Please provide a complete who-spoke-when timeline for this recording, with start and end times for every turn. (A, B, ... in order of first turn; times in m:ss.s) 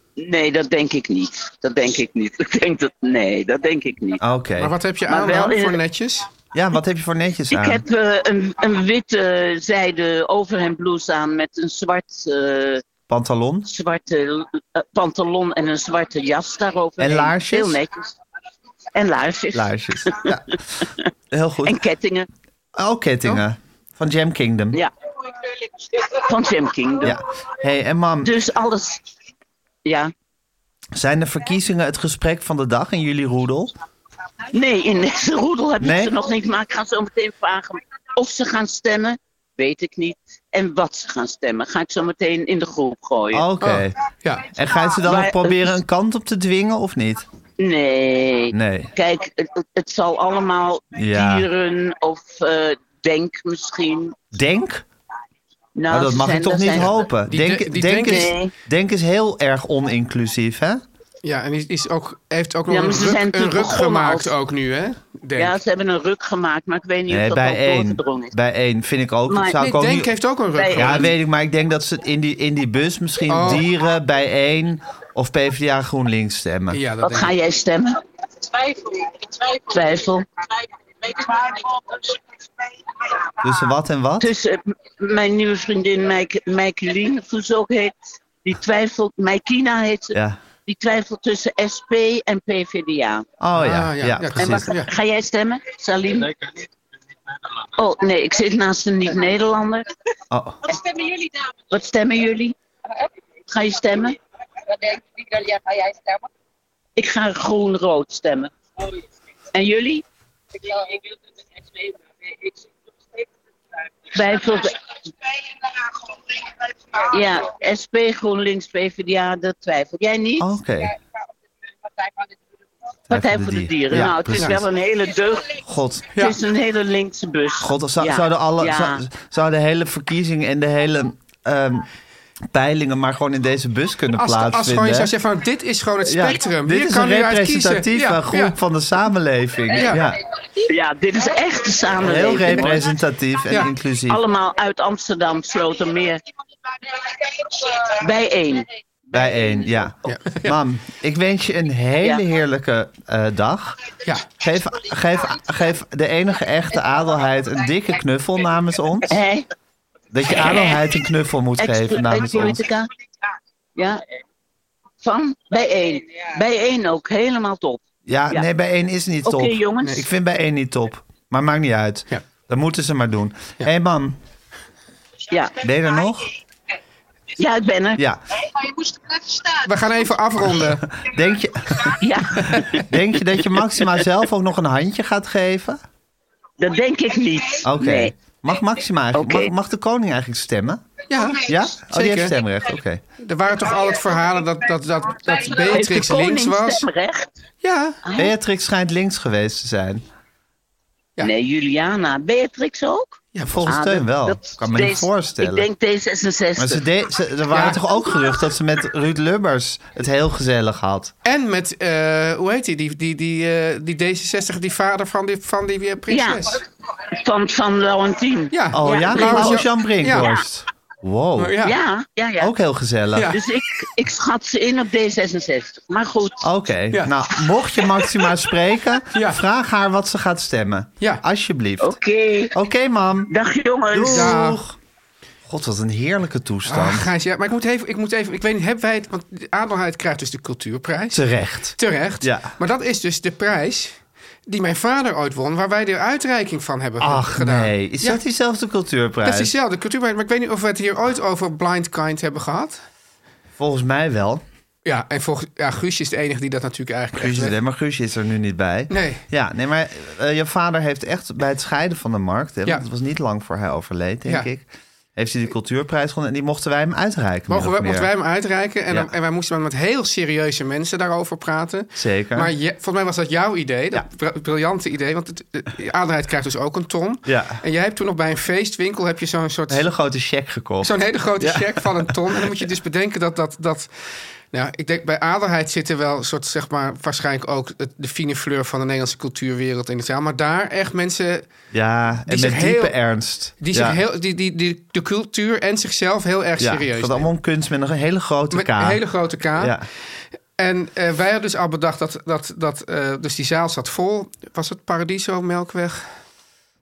0:00.2-0:04.2 A
0:04.2-0:04.7 B
0:04.6-0:06.3 C
0:05.1-0:05.8 A
0:06.5-0:07.8 B
0:07.5-0:12.8 A
0:13.1-0:13.7 B
0:13.7-0:18.1 A
0:17.0-0:17.8 B
0:18.9-0:20.4 A
0:19.5-0:20.6 B
0:21.3-0:21.8 B
0:21.6-0:22.3 A
0:22.8-0:24.8 B
0:26.0-0:27.2 A
0:27.0-0:28.3 B
0:28.2-0:29.0 A
0:29.8-0:30.1 A
0:30.9-0:33.7 B
0:34.5-0:43.4 A
0:35.8-0:36.1 B
0:43.3-0:43.9 B
0:43.6-0:44.5 C
0:44.5-0:47.2 B
0:45.0-0:45.7 A
0:47.6-0:54.2 A
0:48.5-0:48.9 B
0:50.9-0:51.4 B
0:54.3-0:54.8 B
0:55.8-0:57.0 A
0:55.9-1:00.8 B
0:57.3-0:58.3 C
0:58.0-0:58.5 A
1:01.2-1:05.5 C
1:02.7-1:04.3 A
1:05.4-1:08.3 A
1:07.1-1:10.1 B
1:09.3-1:09.6 A
1:09.6-1:11.1 C
1:10.5-1:11.1 A
1:10.7-1:16.8 B
1:13.3-1:13.6 C
1:16.7-1:17.3 C
1:17.0-1:18.0 A
1:18.8-1:20.2 A
1:21.0-1:22.1 A
1:23.4-1:24.3 B
1:24.2-1:27.9 A
1:28.4-1:33.2 A
1:30.1-1:30.4 B
1:33.4-1:34.7 B
1:33.6-1:34.9 C
1:34.4-1:36.3 A
1:37.8-1:39.8 A
1:40.3-1:40.6 B
1:41.7-1:42.5 A
1:43.5-1:44.2 A
1:47.0-1:48.5 A
1:49.5-1:50.0 A
1:54.1-1:54.7 A
1:57.0-2:00.5 A
2:00.4-2:00.9 B
2:03.1-2:04.6 B
2:03.1-2:05.6 A
2:04.3-2:04.6 C
2:05.6-2:06.1 B
2:06.1-2:09.0 A
2:07.6-2:11.8 B
2:12.5-2:15.1 B
2:14.2-2:18.5 C
2:16.0-2:20.2 B
2:19.7-2:20.0 C
2:20.7-2:22.9 A
2:22.0-2:24.2 B
2:24.1-2:26.2 A
2:27.8-2:29.6 A
2:29.1-2:39.2 B
2:30.0-2:30.6 C
2:39.1-2:39.5 A
2:40.1-2:42.6 B
2:41.6-2:42.9 A
2:43.8-2:44.0 A
2:45.0-2:48.4 A
2:48.0-2:54.2 B
2:49.2-2:50.0 A
2:55.3-2:55.6 A
2:55.6-2:56.3 B
2:57.4-2:58.0 A
2:59.6-3:00.9 C
3:00.9-3:05.8 B
3:02.0-3:02.9 A
3:02.4-3:02.7 C
3:06.6-3:08.1 A
3:07.6-3:13.0 B
3:09.1-3:09.5 A
3:11.1-3:12.4 C
3:13.2-3:16.9 C
3:15.6-3:17.3 A
3:17.6-3:18.0 C
3:18.0-3:18.3 A
3:18.1-3:20.0 B
3:21.2-3:26.8 A
3:23.3-3:23.7 C
3:23.5-3:25.6 B
3:26.6-3:31.1 B
3:27.5-3:27.8 C
3:31.2-3:36.6 C
3:36.1-3:36.5 A
3:37.1-3:39.6 A
3:38.5-3:40.3 C
3:38.7-3:41.6 B
3:41.4-3:41.7 C
3:41.6-3:42.5 A
3:42.4-3:43.4 B
3:43.1-3:43.4 C
3:43.3-3:46.4 A
3:46.4-3:51.9 B
3:49.1-3:49.4 C
3:51.8-3:52.5 A
3:52.5-3:53.3 B
3:53.3-3:54.4 A
3:53.9-3:54.8 B
3:54.1-3:54.6 C
3:55.5-3:57.1 B
3:56.7-4:01.2 C
4:01.1-4:02.5 B
4:01.7-4:08.2 C
4:07.0-4:09.5 B
4:09.2-4:12.8 C
4:13.6-4:14.4 B
4:14.8-4:17.6 C
4:17.1-4:28.1 B
4:18.9-4:19.2 C
4:27.5-4:39.8 C
4:31.9-4:32.5 B
4:37.2-4:37.6 B
4:39.7-4:42.5 B
4:40.8-4:43.9 C
4:44.5-4:51.4 C
4:51.7-4:54.0 B
4:52.2-4:53.0 C
4:53.6-4:57.3 C
4:56.6-4:59.0 B
4:58.5-4:59.8 C
4:59.5-4:59.8 B
5:00.6-5:06.1 C